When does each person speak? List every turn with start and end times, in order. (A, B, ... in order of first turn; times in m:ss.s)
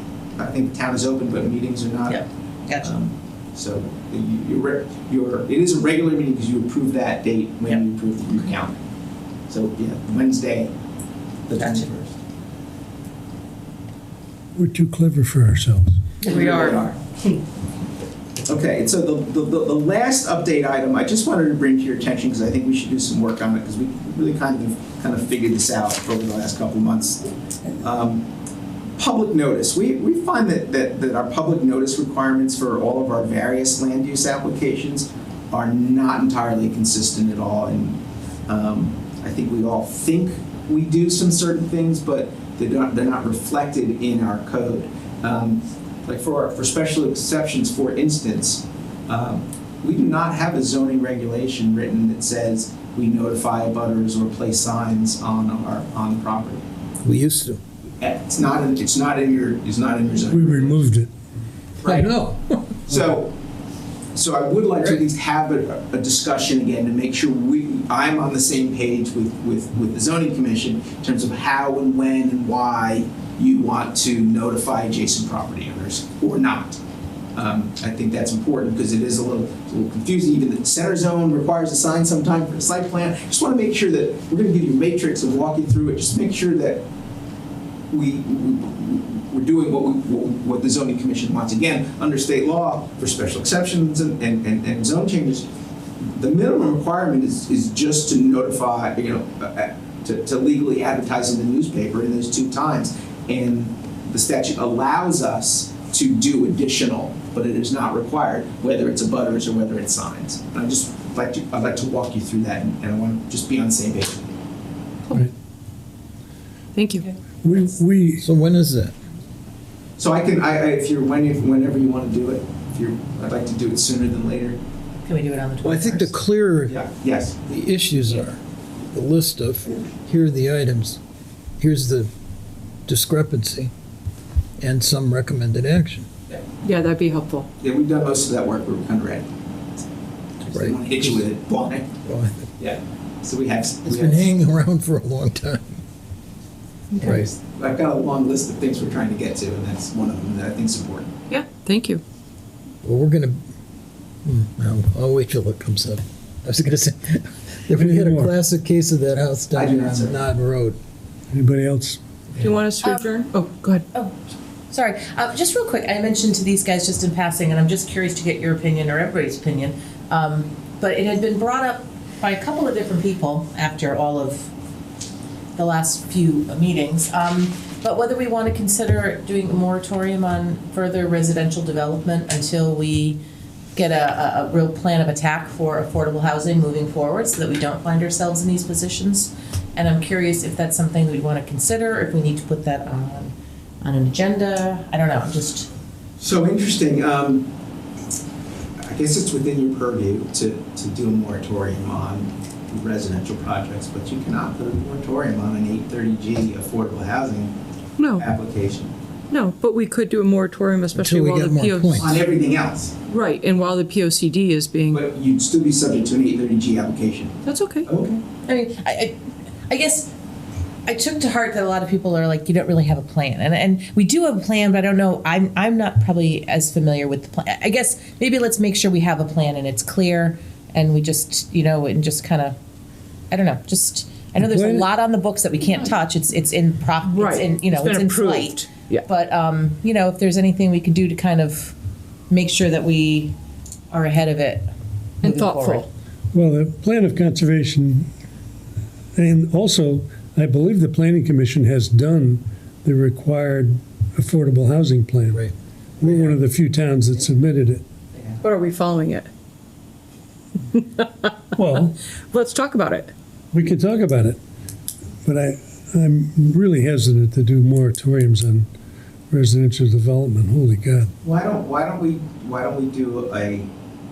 0:00.4-0:02.2 A
0:02.1-0:02.9 B
0:02.8-0:08.7 A
0:09.5-0:10.7 A
0:11.5-0:12.2 A
0:11.6-0:11.9 B
0:14.5-0:16.0 C
0:16.2-0:17.0 A
0:16.3-0:16.8 D
0:17.1-0:17.4 B
0:18.4-0:27.2 A
0:27.8-0:28.3 A
0:29.0-0:56.6 A
0:57.0-0:57.6 E
0:58.0-1:00.8 A
1:00.2-1:01.1 C
1:01.8-1:02.1 A
1:01.8-1:02.8 E
1:02.9-1:03.3 A
1:04.1-1:16.8 A
1:17.3-1:26.8 A
1:27.9-1:35.4 A
1:36.1-1:54.3 A
1:56.7-1:57.0 D
1:57.4-1:58.2 C
1:58.2-1:58.9 E
2:00.0-2:04.6 A
2:05.0-2:06.1 B
2:05.6-2:06.8 E
2:06.7-2:07.4 A
2:07.5-2:11.0 E
2:11.6-2:12.1 E
2:12.9-2:13.7 E
2:14.6-2:16.1 E
2:16.6-2:17.5 D
2:17.6-2:19.3 A
2:20.4-2:21.9 A
2:20.4-2:21.2 E
2:22.0-2:22.5 E
2:22.6-2:24.3 A
2:23.8-2:25.8 E
2:27.0-2:27.3 E
2:27.4-2:31.1 A
2:31.3-2:32.0 D
2:32.8-2:33.4 E
2:34.2-2:40.8 E
2:37.7-2:38.3 C
2:39.5-2:40.2 A
2:41.3-2:42.0 C
2:42.3-2:43.8 D
2:44.7-2:54.5 B
2:55.6-3:03.2 B
3:03.7-3:15.7 B
3:16.2-3:17.5 A
3:18.8-3:27.5 A
3:28.0-3:28.3 D
3:28.1-3:28.9 A
3:29.3-3:32.1 D
3:30.9-3:32.2 E
3:32.0-3:33.0 A
3:33.1-3:35.0 D
3:34.9-3:38.2 A
3:37.4-3:37.9 D
3:38.4-3:39.2 B
3:39.7-3:40.1 B
3:40.8-3:52.6 B
3:53.3-4:01.7 B
3:54.4-3:54.9 C
3:57.0-3:59.0 D
4:02.3-4:03.4 B
4:03.9-4:04.7 B
4:05.2-4:05.9 B
4:05.2-4:05.9 D
4:06.3-4:08.1 C
4:09.1-4:15.5 C
4:16.0-4:17.8 C
4:16.0-4:16.4 E
4:18.4-4:19.3 D
4:20.7-4:23.1 D
4:21.6-4:22.0 C
4:23.5-4:24.4 C
4:25.2-4:28.7 C
4:29.3-4:31.1 C
4:31.2-4:33.7 A